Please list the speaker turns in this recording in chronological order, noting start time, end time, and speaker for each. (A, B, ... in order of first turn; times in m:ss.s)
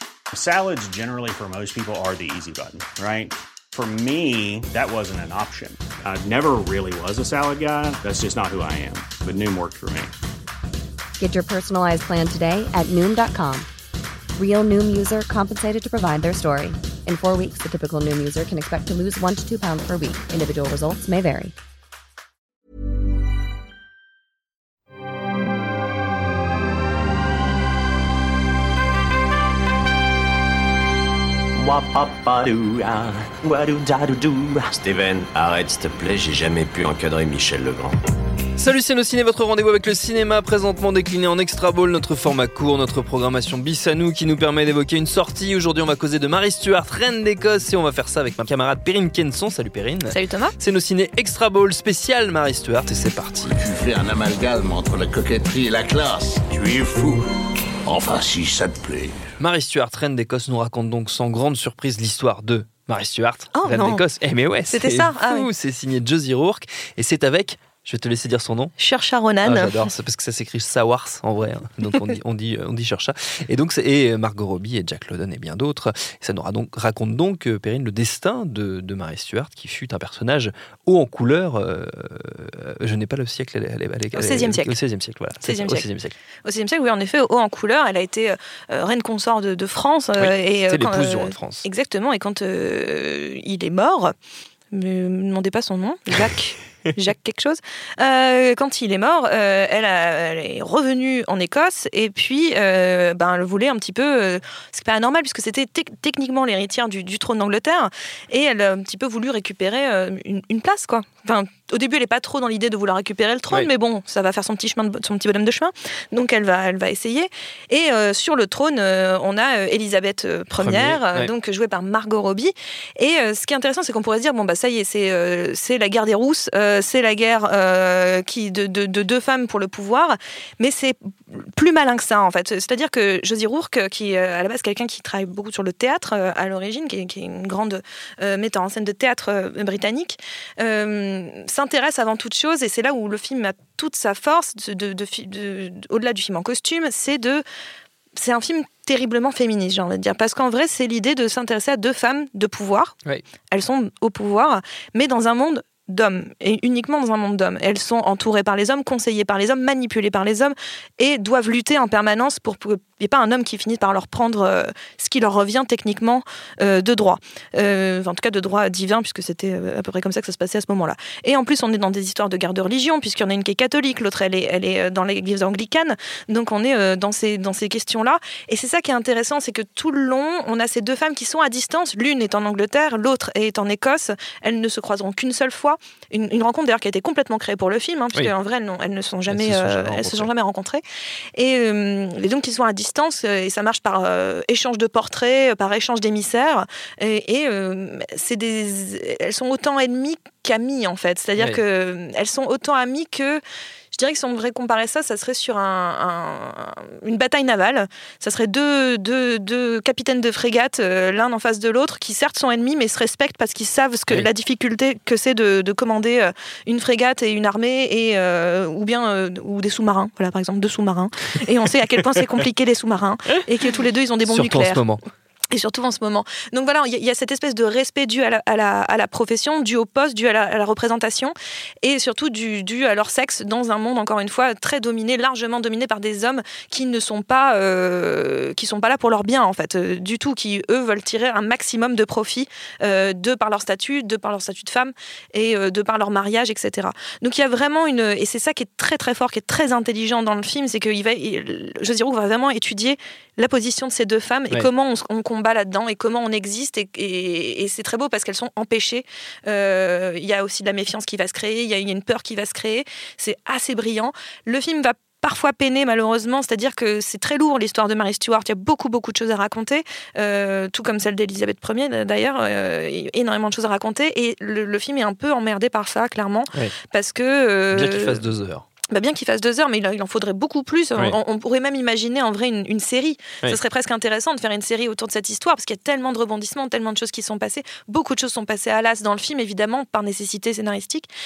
0:00.3-0:10.1 A
0:11.2-0:13.7 B
0:14.4-0:21.5 B
0:31.6-0:37.9 C
0:38.6-0:53.5 D
0:50.1-0:50.5 E
0:53.5-0:57.2 F
0:57.8-0:59.2 F
0:59.4-1:08.7 D
1:03.5-1:04.0 E
1:04.7-1:05.5 E
1:08.8-1:09.8 E
1:09.4-1:26.1 D
1:24.1-1:24.8 E
1:25.4-1:25.9 E
1:26.4-1:34.1 E
1:30.2-1:31.6 D
1:34.7-2:27.4 E
2:00.6-2:01.3 D
2:28.2-2:33.0 E
2:33.5-3:10.8 E
3:09.3-3:10.3 D
3:11.4-3:23.4 E
3:23.9-3:44.8 E
3:44.2-3:45.0 D
3:45.5-4:38.2 E
4:37.7-4:38.6 D
4:38.9-4:51.1 E